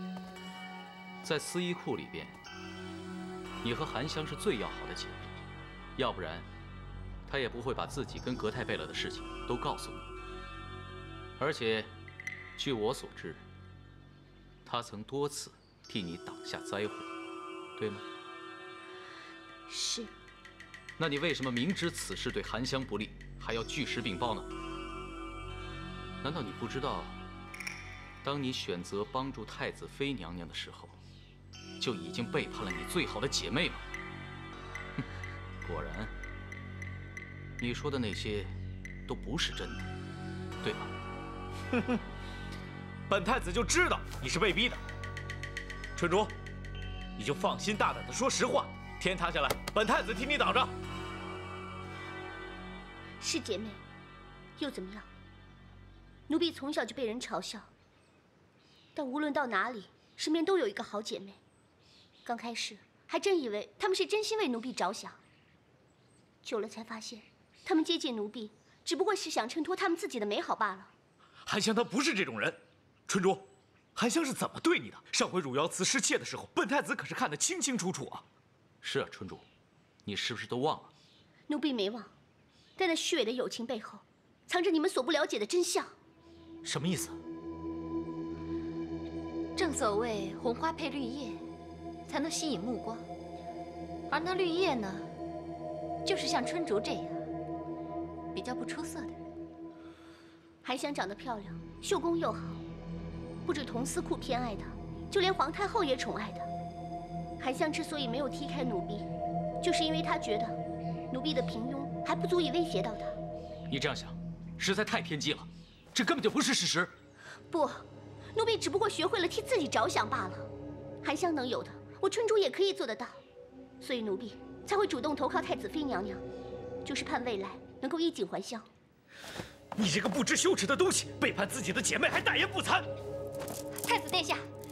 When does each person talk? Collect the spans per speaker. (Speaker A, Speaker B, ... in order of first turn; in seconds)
Speaker A: 1.2-2.4, 3.6-5.3, 6.0-6.5, 7.3-10.1, 11.4-11.9, 12.6-13.4, 14.7-17.1, 17.8-18.0, 21.0-24.5, 26.2-27.2, 28.2-31.0, 31.8-33.8, 35.6-36.1, 37.6-39.9, 40.6-40.9, 78.8-79.5, 80.0-80.9, 113.7-116.9
Speaker B: 19.7-20.1, 53.2-53.8, 54.6-55.1, 56.3-57.7, 59.0-61.4, 62.2-65.2, 66.4-70.9, 81.5-82.1, 82.8-86.0, 100.6-102.6, 103.5-106.5, 107.4-109.1, 109.6-110.6, 111.1-113.2, 117.5-120.5, 121.0-123.2, 123.8-126.2, 126.8-128.7
Speaker C: 43.1-44.8, 46.0-46.3, 47.2-50.7, 71.5-78.2, 86.6-87.2, 129.8-132.9
Speaker D: 89.6-91.4, 92.1-93.1, 94.1-95.1, 96.0-97.3, 98.3-99.2, 133.8-134.5